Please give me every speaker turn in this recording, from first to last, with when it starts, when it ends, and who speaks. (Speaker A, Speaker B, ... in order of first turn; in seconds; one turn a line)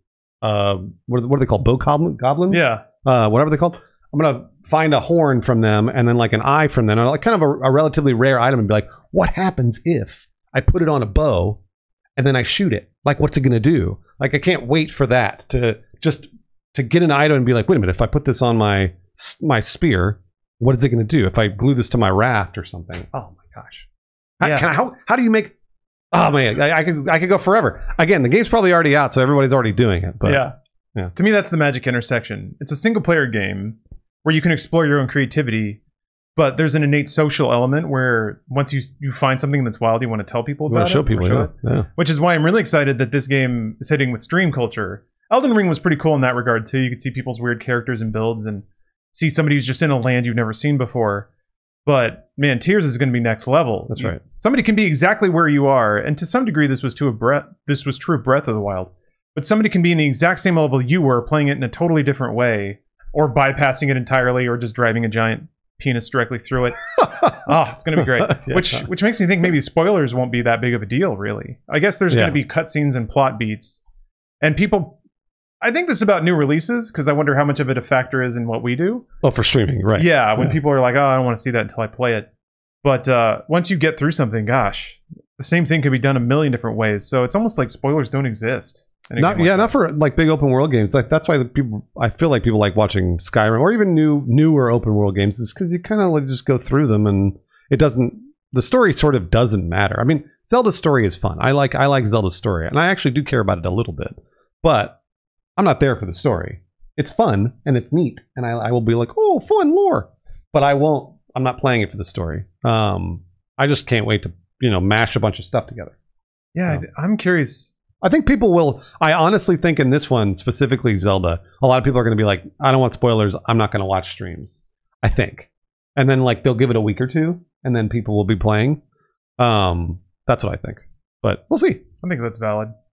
Speaker A: 0.4-11.6
Speaker B: 2.5-2.8
Speaker A: 12.2-23.9
Speaker A: 24.4-25.5
Speaker B: 24.4-24.7
Speaker A: 26.1-31.1
Speaker B: 30.2-30.5
Speaker B: 31.1-35.8
Speaker B: 36.4-51.3
Speaker A: 40.7-41.9
Speaker B: 51.9-73.8
Speaker A: 53.9-54.2
Speaker A: 67.0-68.8
Speaker A: 72.1-72.4
Speaker B: 74.4-75.0
Speaker B: 75.6-79.0
Speaker A: 79.2-80.6
Speaker B: 80.0-82.3
Speaker B: 82.8-89.7
Speaker A: 89.2-105.0
Speaker A: 105.6-115.9
Speaker B: 116.5-117.7
Speaker A: 118.0-128.8
Speaker A: 129.4-131.8
Speaker B: 132.0-132.7